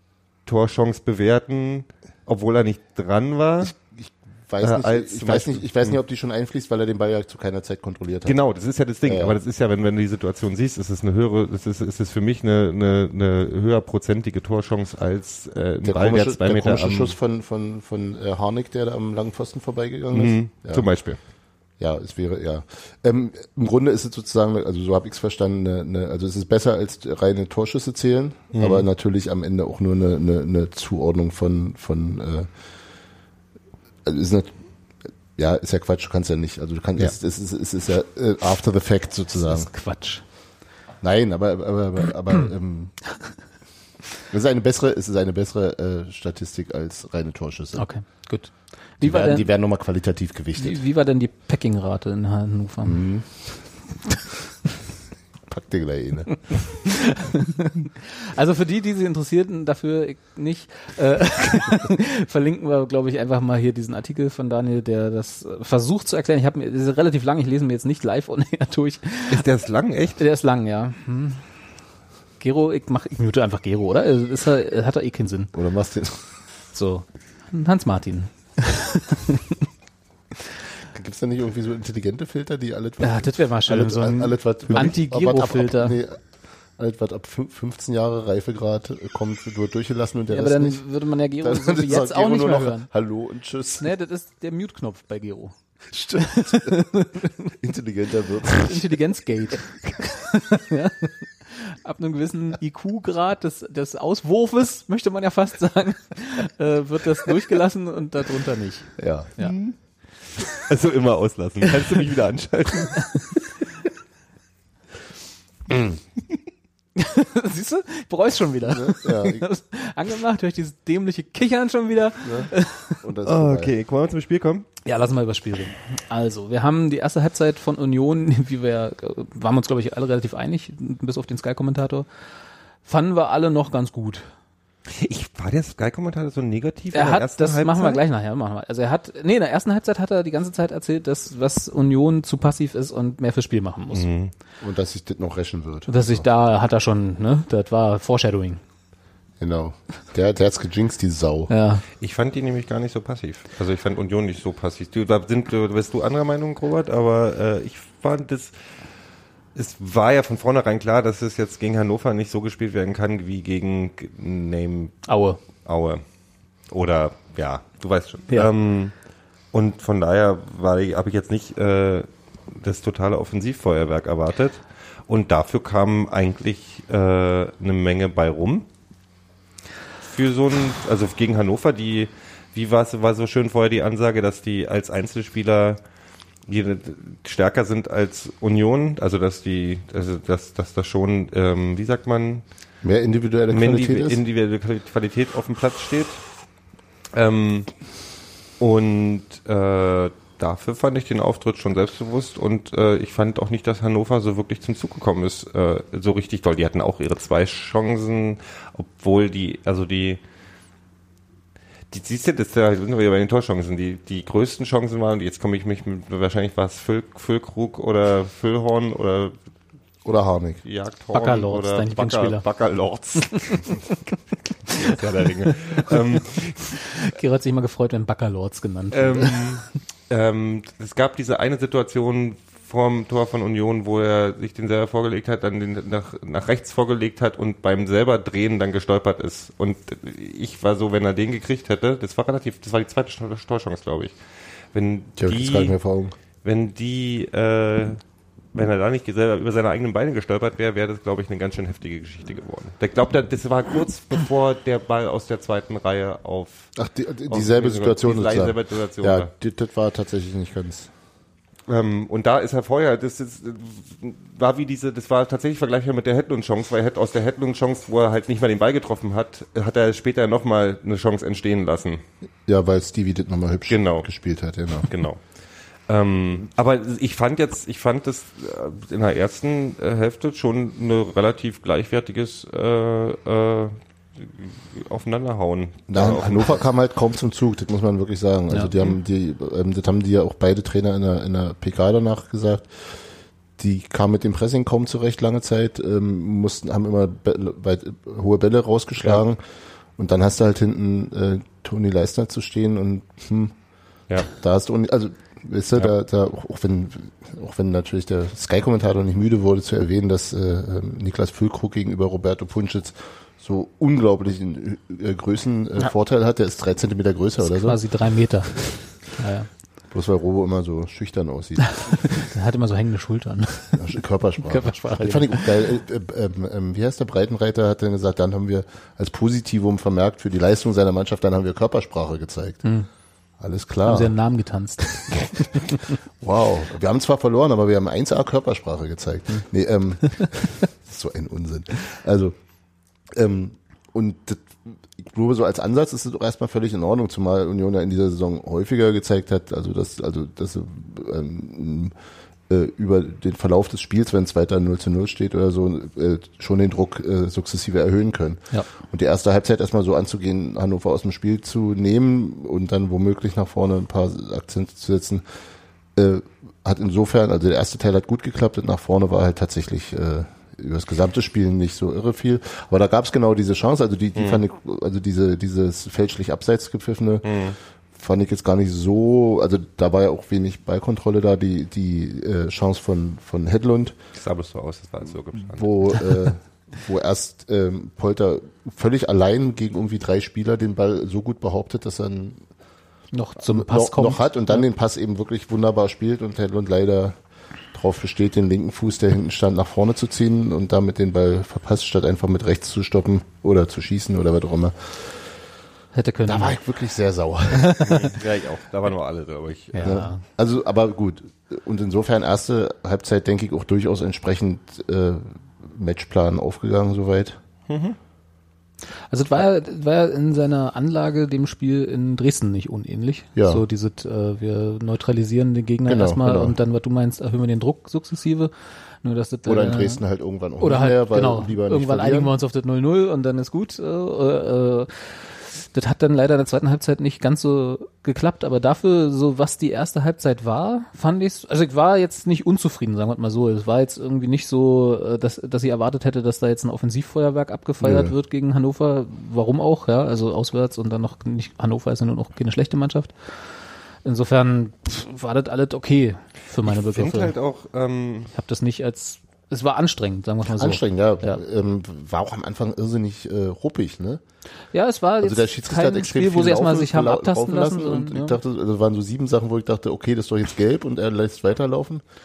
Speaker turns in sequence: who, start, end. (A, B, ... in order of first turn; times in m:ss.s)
0:00.4-0:03.8 A
0:03.6-0:08.4 B
0:04.6-0:05.9 A
0:08.2-0:17.2 A
0:09.0-0:09.4 B
0:15.8-0:20.9 B
0:20.1-0:21.2 A
0:21.8-0:32.5 B
0:28.5-0:28.9 A
0:34.1-0:34.5 B
0:35.4-0:39.7 B
0:39.4-0:40.2 C
0:41.0-0:42.9 B
0:44.3-0:47.9 B
0:47.7-0:49.4 C
0:49.0-0:50.8 B
0:50.6-0:53.0 C
0:52.8-0:53.2 B
0:55.5-0:56.4 B
0:56.7-1:09.5 C
1:09.3-1:10.2 A
1:10.2-1:11.4 C
1:12.4-1:15.5 C
1:15.5-1:16.2 B
1:16.7-1:19.6 C
1:20.9-1:26.2 B
1:23.0-1:26.0 C
1:26.8-1:30.8 B
1:30.3-1:32.9 C
1:31.4-1:33.9 B
1:33.8-1:35.5 C
1:35.9-1:36.9 B
1:36.2-1:37.6 C
1:37.4-1:39.0 B
1:38.5-1:49.6 C
1:49.0-1:49.4 B
1:50.5-1:53.1 A
1:55.7-1:55.9 B
1:57.0-2:03.0 C
1:58.6-1:59.5 B
2:02.2-2:02.5 B
2:03.0-2:03.7 B
2:03.2-2:04.7 A
2:04.8-2:12.1 C
2:12.8-2:14.3 C
2:14.9-2:18.0 A
2:16.9-2:24.1 C
2:23.9-2:24.3 A
2:24.6-2:26.2 B
2:25.9-2:28.6 C
2:29.4-2:31.5 B
2:31.5-2:31.8 C
2:32.0-2:38.5 A
2:39.6-2:45.0 A
2:45.1-2:45.4 C
2:45.6-2:46.0 A
2:46.7-2:48.9 A
2:49.5-2:58.7 A
3:00.0-3:05.8 A
3:06.5-3:12.4 A
3:12.8-3:14.2 B
3:13.5-3:16.2 A
3:17.1-3:17.7 A
3:18.6-3:30.2 A
3:31.9-3:39.3 A
3:40.0-3:40.6 B
3:40.6-3:43.7 A
3:41.1-3:42.4 C
3:43.4-3:43.9 C
3:44.7-3:46.0 C
3:44.7-3:47.0 A
3:46.7-3:49.4 C
3:48.9-4:04.2 A
4:04.7-4:05.8 A
4:05.2-4:06.2 B
4:06.4-4:08.0 A
4:08.5-4:16.7 A
4:16.8-4:20.9 B
4:17.3-4:19.3 A
4:21.7-4:32.0 A
4:32.5-4:34.9 B
4:33.7-4:34.1 A
4:34.8-4:35.2 A
4:35.9-4:46.6 A
4:45.9-4:52.7 B
4:53.6-4:59.4 B
5:00.0-5:03.6 B
5:04.3-5:17.8 B
5:17.4-5:19.5 C
5:19.9-5:22.0 B
5:21.7-5:23.8 C
5:23.7-5:32.6 B
5:24.4-5:25.6 C
5:33.4-5:34.1 B
5:33.8-5:35.8 C
5:35.5-5:42.3 B
5:43.1-5:51.9 B
5:52.5-6:05.2 B
6:06.0-6:17.4 B
6:14.2-6:14.4 A
6:17.2-6:17.6 A
6:17.9-6:23.9 B
6:24.2-6:26.0 A
6:25.4-6:32.4 B
6:33.1-6:34.6 C
6:33.4-6:37.2 B
6:37.7-6:45.2 B
6:45.9-6:46.6 C
6:46.3-6:48.1 B
6:47.5-6:48.1 C
6:47.8-6:50.0 A
6:49.7-6:50.2 C
6:49.8-6:57.4 B
6:57.7-6:58.0 A
6:59.1-7:08.5 C
7:03.4-7:03.6 B
7:05.9-7:06.6 B
7:09.0-7:10.0 C
7:09.4-7:12.3 B
7:10.6-7:33.1 C
7:27.8-7:28.1 B
7:34.0-7:37.3 C
7:36.6-7:38.3 A
7:38.3-7:41.4 C
7:40.4-7:44.2 B
7:44.7-7:48.4 C
7:45.2-7:52.0 B